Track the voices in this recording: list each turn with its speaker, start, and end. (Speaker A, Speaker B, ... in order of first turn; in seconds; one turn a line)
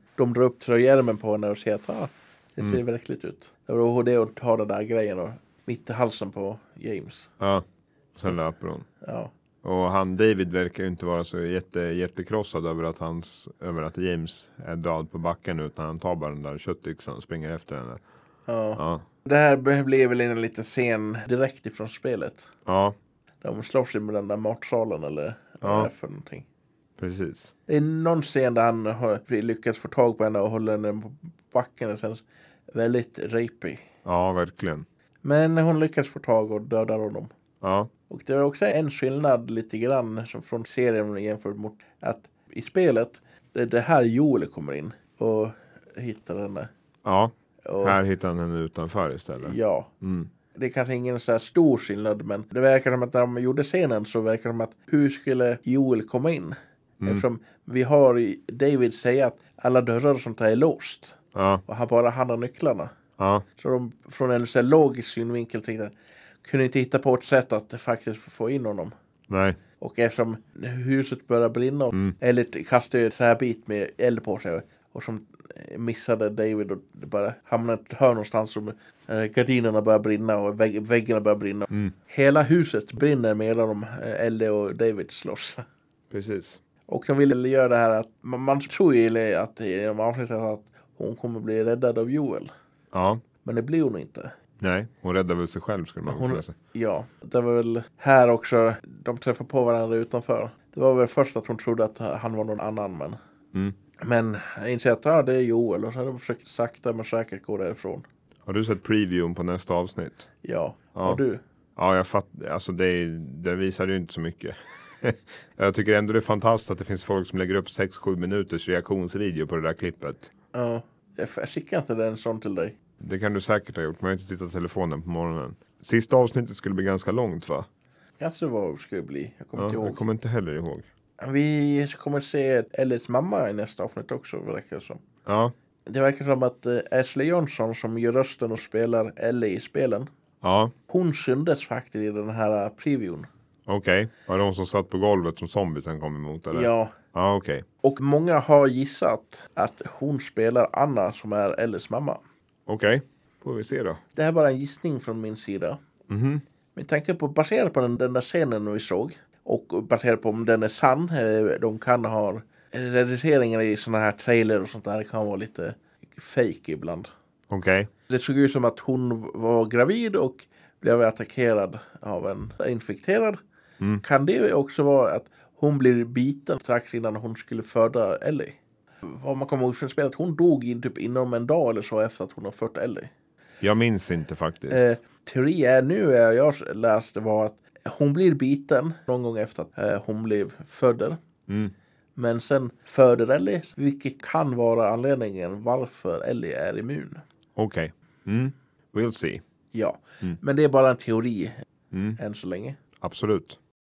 Speaker A: 0.2-7.3
Speaker B: 8.2-8.9
Speaker A: 9.0-9.3
Speaker B: 9.6-18.0
Speaker A: 18.5-22.5
Speaker B: 18.8-19.1
Speaker B: 22.7-23.0
Speaker A: 23.4-26.5
Speaker B: 25.6-25.9
Speaker B: 27.0-27.5
Speaker A: 27.7-33.8
Speaker B: 34.0-34.9
Speaker A: 35.2-37.3
Speaker B: 37.6-37.9
Speaker A: 38.1-46.7
Speaker B: 47.0-50.3
Speaker A: 47.6-48.0
Speaker A: 49.4-49.9
Speaker A: 50.5-62.9
Speaker B: 61.3-61.6
Speaker B: 63.2-63.5
Speaker A: 63.6-65.9
Speaker A: 66.4-68.9
Speaker B: 69.3-69.6
Speaker A: 69.8-85.7
Speaker B: 86.1-86.6
Speaker A: 86.9-92.5
Speaker B: 92.9-93.2
Speaker A: 93.4-94.3
Speaker B: 94.6-96.5
Speaker A: 96.1-103.2
Speaker A: 104.0-108.1
Speaker B: 108.5-110.3
Speaker A: 110.4-111.4
Speaker B: 111.0-111.2
Speaker B: 111.8-120.3
Speaker A: 120.5-122.8
Speaker B: 123.0-127.7
Speaker A: 128.2-130.0
Speaker B: 129.6-130.9
Speaker A: 131.2-135.0
Speaker B: 135.2-135.5
Speaker A: 135.9-140.1
Speaker B: 140.4-140.7
Speaker A: 140.9-143.3
Speaker B: 143.7-147.7
Speaker A: 146.5-146.9
Speaker A: 147.8-152.2
Speaker B: 152.7-154.0
Speaker A: 154.1-155.8
Speaker B: 156.1-156.4
Speaker A: 156.8-167.1
Speaker B: 167.5-167.9
Speaker A: 168.1-173.4
Speaker A: 174.0-183.1
Speaker B: 183.6-184.9
Speaker A: 184.7-191.2
Speaker B: 191.5-191.7
Speaker A: 192.2-197.2
Speaker B: 197.6-199.4
Speaker A: 199.7-201.6
Speaker B: 201.9-202.2
Speaker A: 202.2-202.8
Speaker B: 203.0-203.6